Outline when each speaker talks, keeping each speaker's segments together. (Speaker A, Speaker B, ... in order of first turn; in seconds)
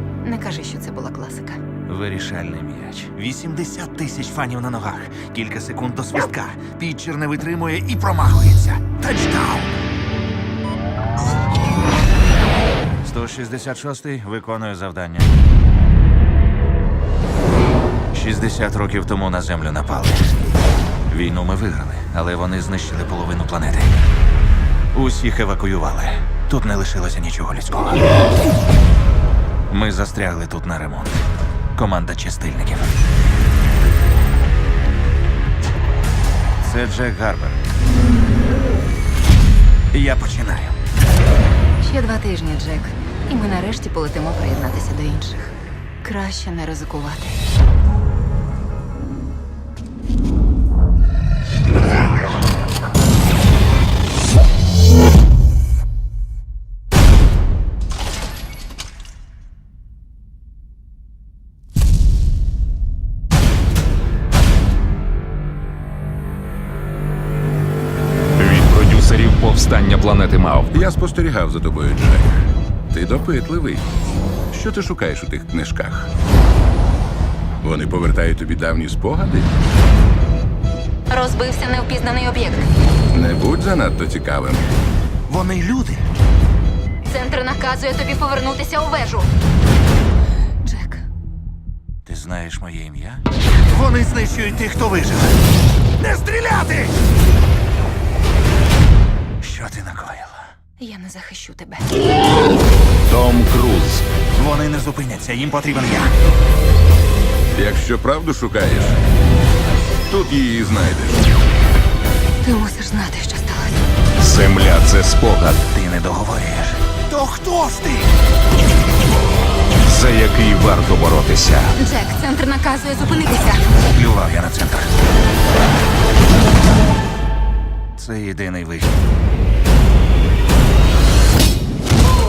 Speaker A: 0.2-1.6, 41.8-47.4, 81.1-82.7, 87.1-89.3, 90.6-91.0, 100.8-102.0, 112.4-113.8, 121.8-123.7
Speaker B: 1.9-9.7, 13.0-15.3, 18.1-20.3, 21.1-24.0, 24.9-28.1, 29.7-31.2, 31.8-33.0, 36.6-37.6, 39.9-40.8, 85.3-86.0, 92.0-95.4, 96.0-96.9, 99.4-100.5, 104.3-106.1, 115.7-118.1, 123.8-124.9, 128.0-129.0
Speaker C: 68.4-70.8, 103.1-104.0, 114.2-115.7, 119.8-121.8
Speaker D: 70.7-73.9, 74.5-76.1, 77.6-79.5, 83.1-84.7, 107.5-109.0, 110.1-111.2